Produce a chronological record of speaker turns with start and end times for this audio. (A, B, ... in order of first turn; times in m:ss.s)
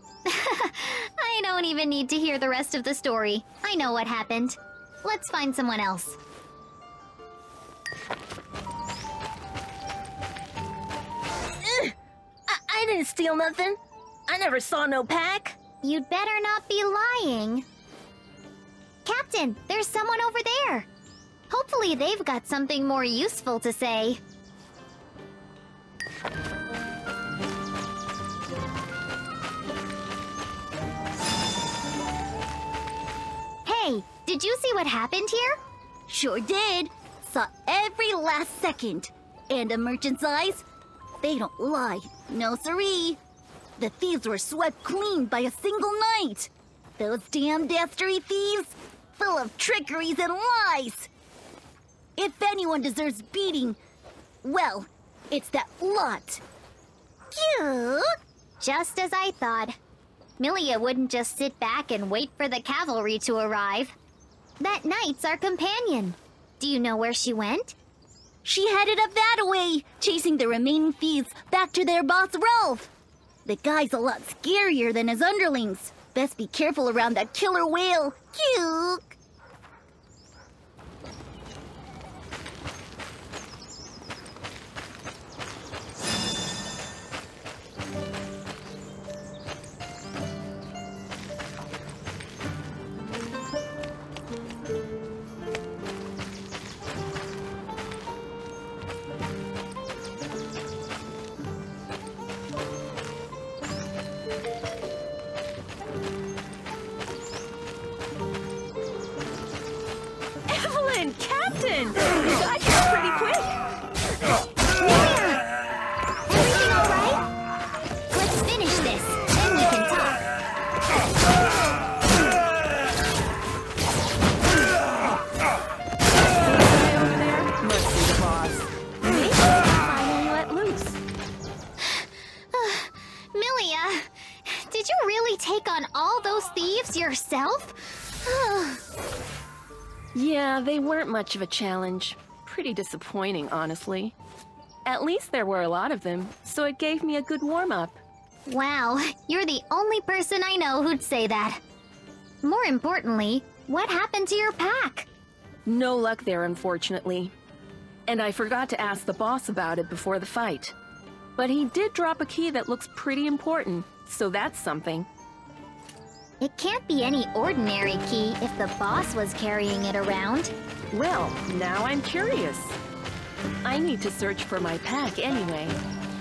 0:00.3-0:06.2 A
0:12.5-0:13.8 B
0:14.3-0:15.6 B
0:15.8-0:17.6 A
0:19.0-0:20.9 A
0:21.5-0:24.2 A
0:33.7-0:35.6 A
0:36.1-0:40.6 C
0:41.2-0:43.2 C
0:43.8-0:51.1 C
0:52.2-0:53.8 C
0:54.4-0:56.4 C
0:57.3-0:58.0 C
0:58.6-0:59.8 A
1:00.4-1:03.9 A
1:04.6-1:07.8 A
1:08.4-1:12.9 C
1:13.4-1:19.2 C
1:50.5-1:53.6 B
1:54.8-1:55.4 A
1:56.3-1:57.2 A
1:58.1-2:00.2 A
2:06.2-2:11.0 B
2:11.8-2:18.8 A
2:20.1-2:24.2 B
2:24.9-2:28.0 B
2:28.5-2:31.6 A
2:32.4-2:35.1 A
2:35.7-2:37.3 B
2:38.1-2:40.8 B
2:41.4-2:45.1 B
2:46.4-2:50.5 A
2:50.9-2:52.8 B
2:53.6-2:55.8 B